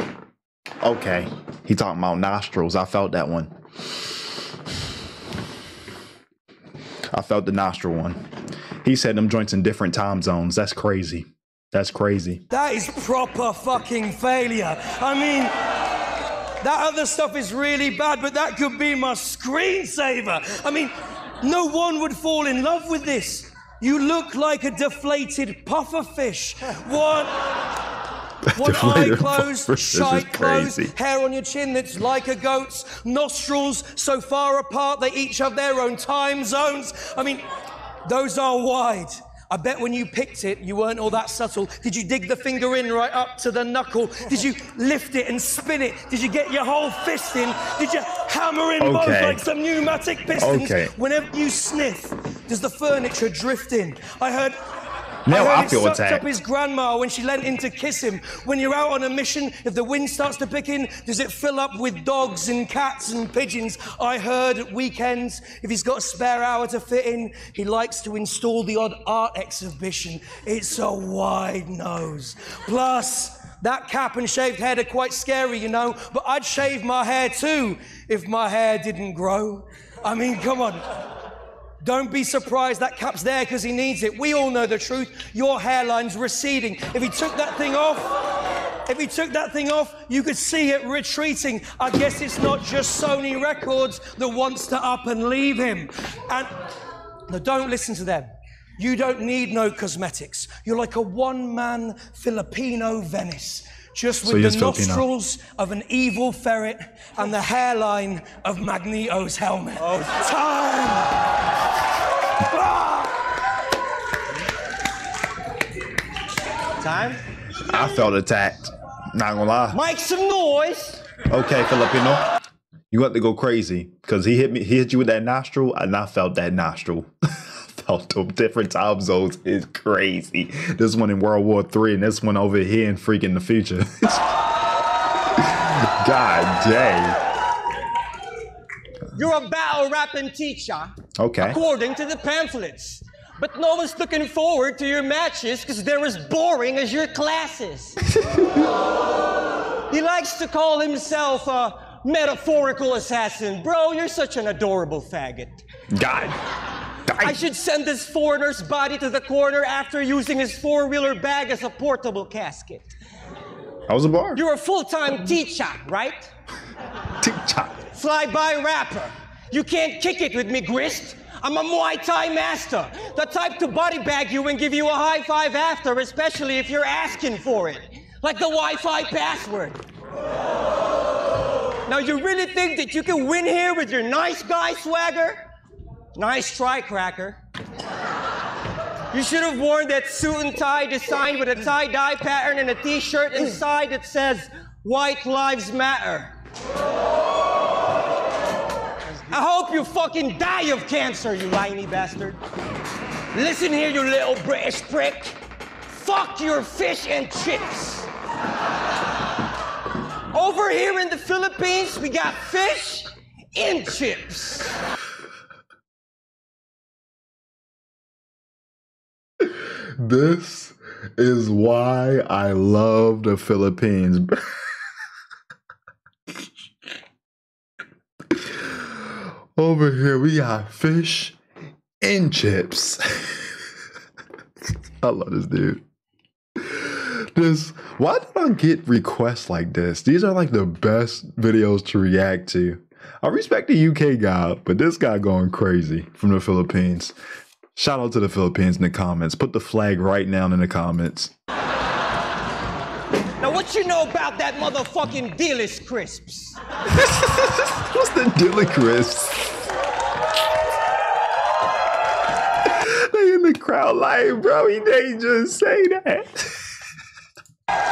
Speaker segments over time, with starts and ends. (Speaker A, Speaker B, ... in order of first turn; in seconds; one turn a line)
Speaker A: 0.8-3.5
Speaker A: 7.1-8.2
Speaker A: 8.8-12.4
Speaker B: 12.5-15.6
Speaker B: 16.6-27.4
Speaker A: 28.4-30.9
Speaker B: 28.5-37.5
Speaker B: 38.0-54.6
Speaker A: 48.8-49.4
Speaker A: 50.4-50.9
Speaker A: 55.2-56.3
Speaker B: 55.3-81.0
Speaker B: 81.8-88.2
Speaker B: 88.8-96.6
Speaker B: 97.3-111.2
Speaker A: 104.2-105.0
Speaker C: 109.8-110.3
Speaker B: 112.4-113.2
Speaker C: 116.8-117.2
Speaker A: 117.6-119.8
Speaker C: 119.7-121.0
Speaker A: 121.3-122.2
Speaker A: 122.9-134.2
Speaker A: 135.3-137.2
Speaker C: 139.1-148.0
Speaker A: 141.2-141.6
Speaker C: 149.9-155.6
Speaker A: 155.9-156.4
Speaker A: 157.1-157.4
Speaker C: 157.2-162.9
Speaker A: 163.9-164.4
Speaker C: 164.3-166.3
Speaker A: 167.2-167.8
Speaker C: 167.9-179.8
Speaker C: 181.9-185.4
Speaker C: 186.1-187.4
Speaker C: 189.1-196.3
Speaker C: 199.3-202.4
Speaker C: 203.3-208.1
Speaker C: 210.3-214.8
Speaker A: 220.0-224.3
Speaker A: 228.5-229.0
Speaker A: 229.6-231.3
Speaker A: 232.0-233.4
Speaker A: 235.0-235.8
Speaker A: 236.6-247.1
Speaker A: 247.8-251.3
Speaker C: 253.4-256.6
Speaker A: 256.9-259.5
Speaker A: 262.6-266.6